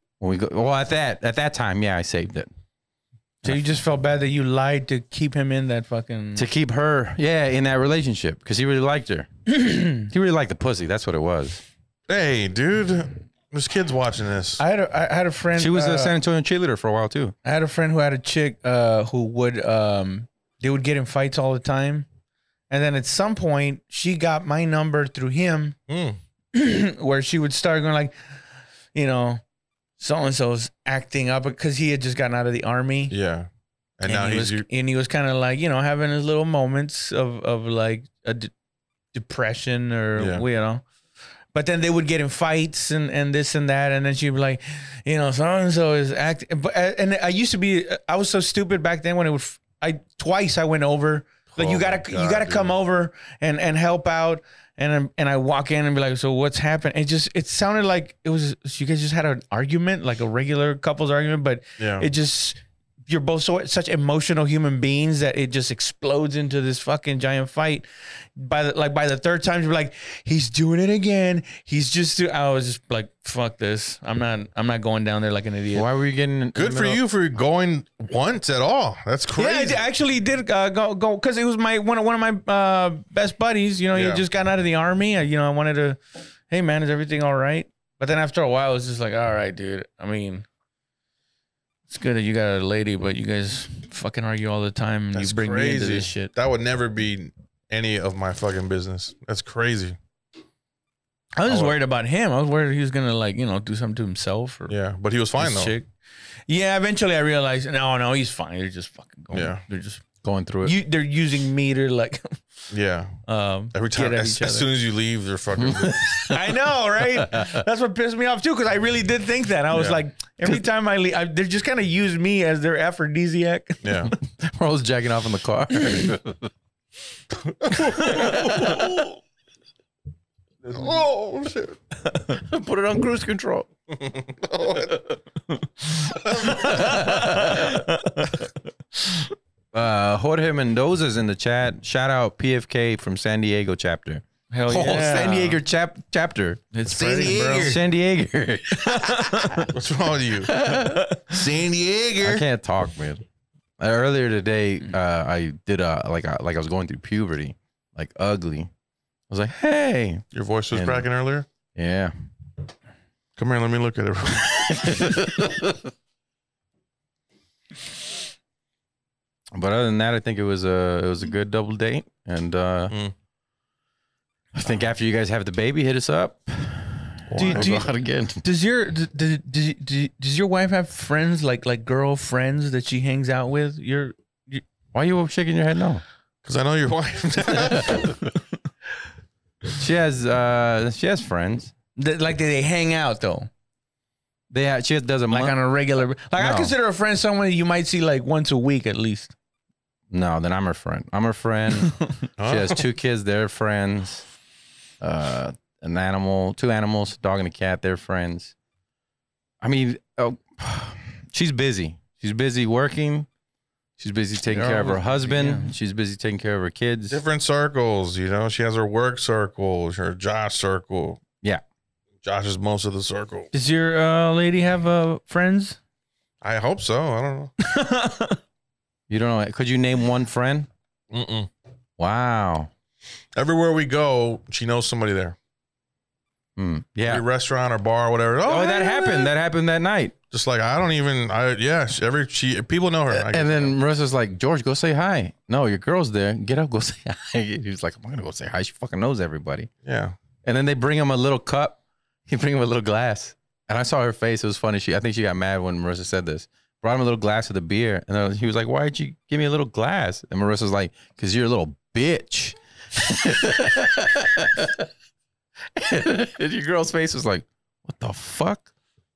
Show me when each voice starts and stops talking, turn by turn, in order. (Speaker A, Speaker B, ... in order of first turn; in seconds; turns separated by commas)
Speaker A: 0.2-2.5, Speaker B: 3.4-6.5, Speaker A: 6.3-9.3, Speaker B: 9.5-10.1, Speaker A: 9.9-11.6, Speaker C: 12.1-14.6, Speaker B: 14.6-16.2, Speaker A: 15.6-17.3, Speaker B: 17.4-22.1, Speaker B: 22.7-25.8, Speaker C: 25.9-26.2, Speaker B: 26.5-28.1, Speaker B: 28.9-29.4, Speaker B: 30.0-33.1, Speaker C: 33.1-34.6, Speaker B: 34.1-38.5, Speaker B: 39.1-40.9, Speaker C: 40.2-40.4, Speaker B: 41.5-67.8, Speaker C: 51.5-52.7, Speaker C: 61.8-62.0, Speaker B: 68.4-75.9, Speaker A: 75.7-77.0, Speaker C: 76.5-79.8, Speaker B: 79.3-90.5, Speaker C: 83.9-84.2, Speaker B: 91.9-96.3, Speaker C: 95.1-100.0, Speaker B: 101.3-104.7, Speaker C: 101.5-101.7, Speaker C: 104.7-105.7, Speaker B: 105.4-105.9, Speaker B: 106.5-110.0, Speaker C: 109.3-109.6, Speaker A: 110.2-110.7, Speaker B: 110.6-112.4, Speaker C: 112.7-113.2, Speaker B: 113.2-114.7, Speaker C: 113.7-116.2, Speaker A: 115.5-116.5, Speaker B: 116.3-123.8, Speaker A: 117.1-117.6, Speaker C: 119.7-120.0, Speaker C: 123.8-124.1, Speaker A: 124.1-126.5, Speaker C: 127.5-128.8, Speaker B: 127.8-129.0, Speaker A: 128.0-128.8, Speaker B: 130.7-131.0, Speaker C: 130.7-131.7, Speaker A: 132.3-133.7, Speaker C: 134.0-135.0, Speaker B: 135.8-138.5, Speaker C: 136.2-136.9, Speaker A: 136.5-137.8, Speaker A: 139.7-146.6, Speaker B: 144.5-145.6, Speaker B: 146.7-147.8, Speaker C: 146.9-147.8, Speaker A: 147.2-149.7, Speaker B: 148.8-149.7, Speaker C: 149.7-150.6, Speaker A: 150.5-151.1, Speaker B: 150.6-151.3, Speaker C: 151.3-152.4, Speaker A: 152.2-153.2, Speaker A: 153.8-158.7, Speaker A: 159.3-161.1, Speaker C: 160.3-161.5, Speaker A: 161.7-162.1, Speaker C: 163.4-165.2, Speaker A: 164.6-165.8, Speaker A: 169.5-172.9, Speaker A: 174.5-178.4, Speaker C: 177.3-177.8, Speaker B: 177.4-177.9, Speaker B: 178.4-184.6, Speaker A: 184.9-186.0, Speaker C: 186.4-188.2, Speaker A: 187.5-188.2, Speaker A: 189.8-191.7, Speaker B: 192.0-193.5, Speaker A: 194.5-195.6, Speaker B: 195.3-199.3, Speaker A: 196.4-196.7, Speaker A: 200.1-204.2, Speaker C: 202.4-202.8, Speaker A: 205.0-208.5, Speaker A: 209.6-213.3, Speaker A: 214.0-217.2, Speaker B: 214.5-215.7, Speaker C: 217.1-221.2, Speaker C: 222.2-223.5, Speaker B: 223.5-225.8, Speaker C: 226.4-227.5, Speaker B: 227.6-228.4, Speaker A: 229.1-230.7, Speaker C: 231.1-231.5, Speaker A: 232.0-232.7, Speaker C: 233.3-235.3, Speaker A: 236.6-237.2, Speaker C: 237.1-239.3, Speaker A: 238.4-240.1, Speaker C: 240.3-243.7, Speaker A: 243.1-249.7, Speaker C: 249.8-250.2, Speaker A: 250.4-264.9, Speaker A: 265.7-268.7